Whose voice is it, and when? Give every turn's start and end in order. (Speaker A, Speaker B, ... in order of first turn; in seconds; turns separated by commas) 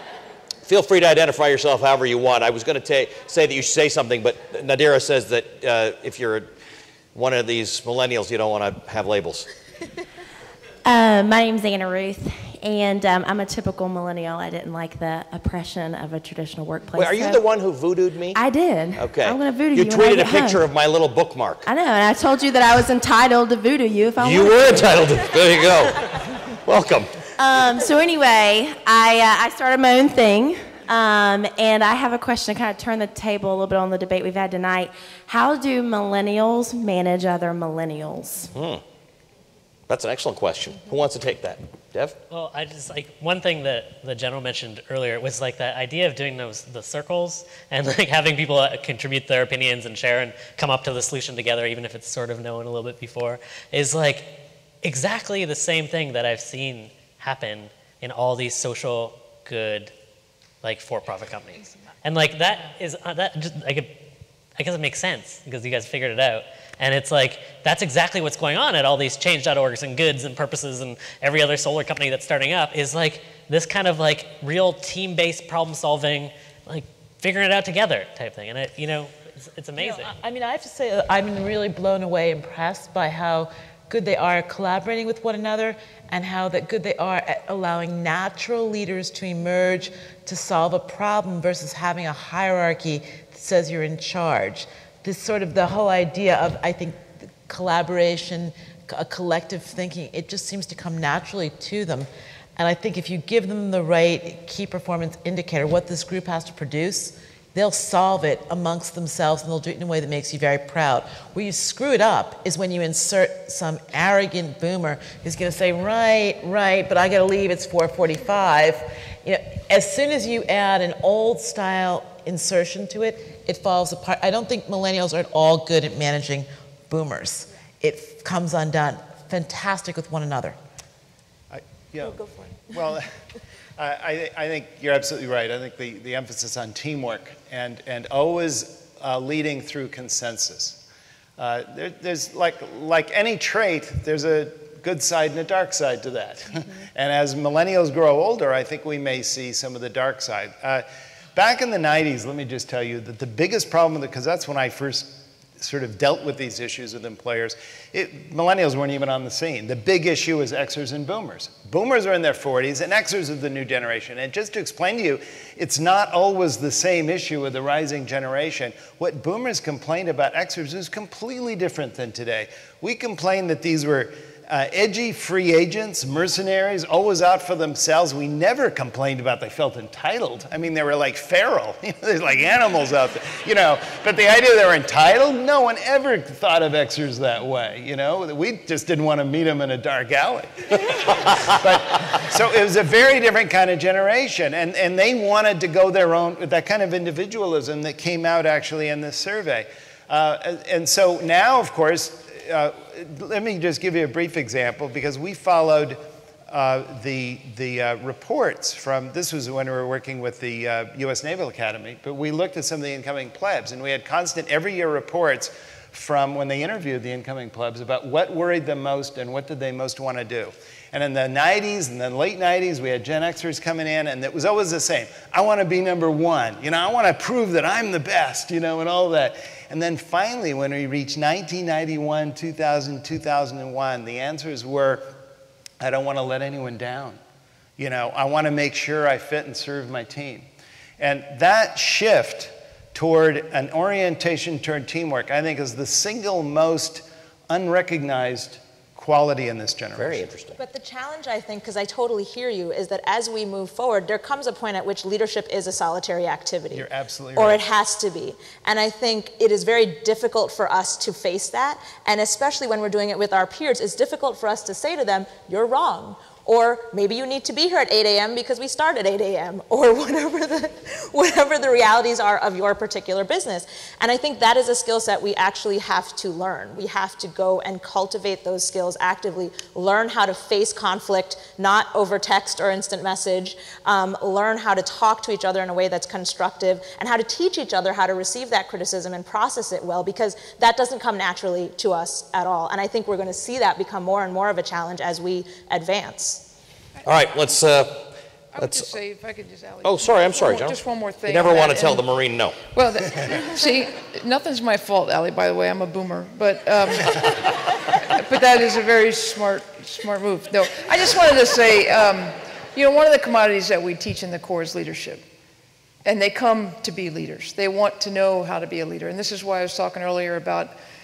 Speaker A: 0.7-6.5, Speaker A: 7.1-9.5, Speaker B: 10.8-17.4, Speaker A: 16.9-18.4, Speaker B: 18.3-20.7, Speaker A: 18.9-21.7, Speaker B: 21.7-25.1, Speaker A: 24.2-26.0, Speaker A: 26.6-27.1, Speaker B: 27.4-38.5, Speaker A: 38.5-38.8, Speaker A: 39.9-42.2, Speaker C: 42.3-59.9, Speaker C: 60.6-63.9, Speaker C: 64.6-80.1, Speaker D: 79.8-130.6, Speaker E: 131.5-133.1, Speaker E: 133.8-140.8, Speaker E: 141.4-235.2, Speaker E: 235.8-237.2, Speaker E: 237.8-240.5, Speaker E: 241.0-250.3, Speaker A: 249.9-250.6, Speaker F: 250.6-296.4, Speaker E: 256.7-257.6, Speaker A: 297.1-298.9, Speaker G: 298.6-302.1, Speaker A: 299.8-302.6, Speaker G: 302.7-307.3, Speaker G: 308.1-315.2, Speaker G: 316.1-320.7